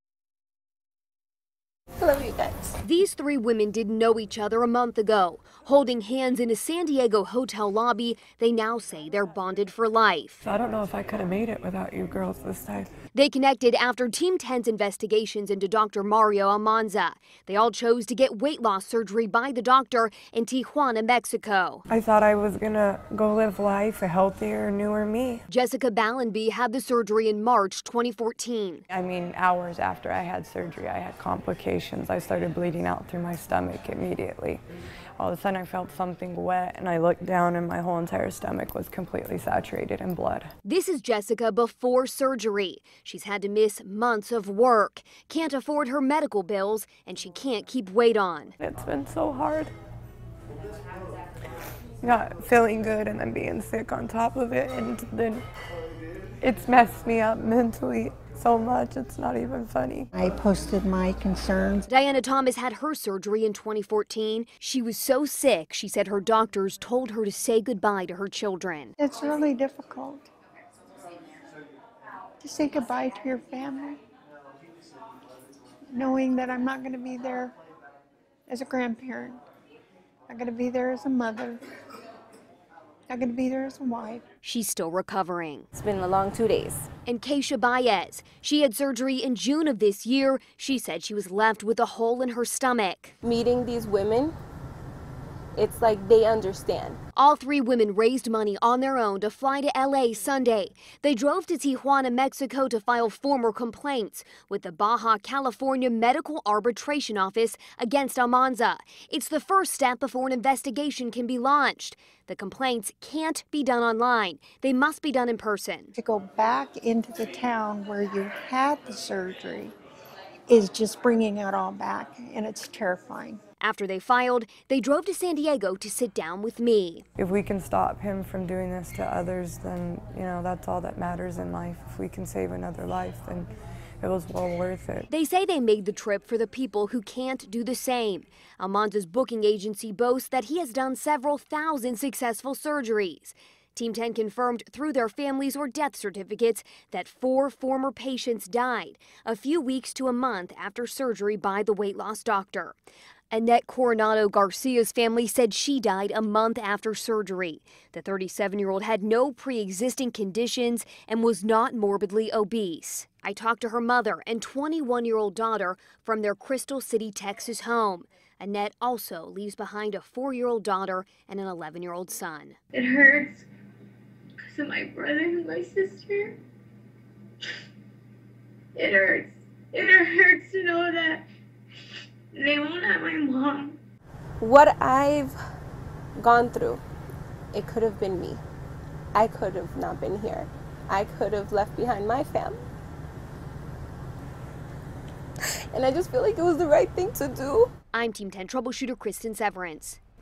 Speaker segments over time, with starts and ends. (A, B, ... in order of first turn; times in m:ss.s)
0:02.0-0:02.8 A
0:02.8-0:10.4 B
0:10.4-0:12.9 C
0:13.2-0:21.8 B
0:21.9-0:25.4 C
0:25.6-0:28.8 B
0:28.9-0:34.6 C
0:35.2-0:40.5 C
0:40.7-0:48.5 B
0:48.6-0:49.7 C
0:52.0-0:55.4 C
0:56.4-1:00.1 C
1:00.1-1:01.9 D
1:02.0-1:08.9 B
1:09.0-1:10.3 D
1:12.4-1:14.0 D
1:15.9-1:17.5 D
1:18.5-1:19.4 D
1:20.3-1:21.6 D
1:23.1-1:24.2 D
1:24.4-1:25.7 B
1:25.8-1:26.9 A
1:27.0-1:33.2 B
1:33.2-1:34.4 A
1:35.6-1:37.0 A
1:37.2-1:55.9 B
1:56.0-1:59.7 D
2:00.5-2:03.4 D
2:03.6-2:07.0 B
2:07.2-2:13.5 C
2:14.0-2:15.1 C
2:15.2-2:32.8 B
2:33.3-2:52.6 B
2:52.7-2:53.5 E
2:54.4-2:56.4 E
2:58.8-3:01.2 E
3:02.3-3:03.8 E
3:04.4-3:05.4 A
3:06.2-3:06.8 A
3:07.5-3:08.4 A
3:09.1-3:12.6 A
3:15.7-3:17.7 A
3:18.0-3:20.0 B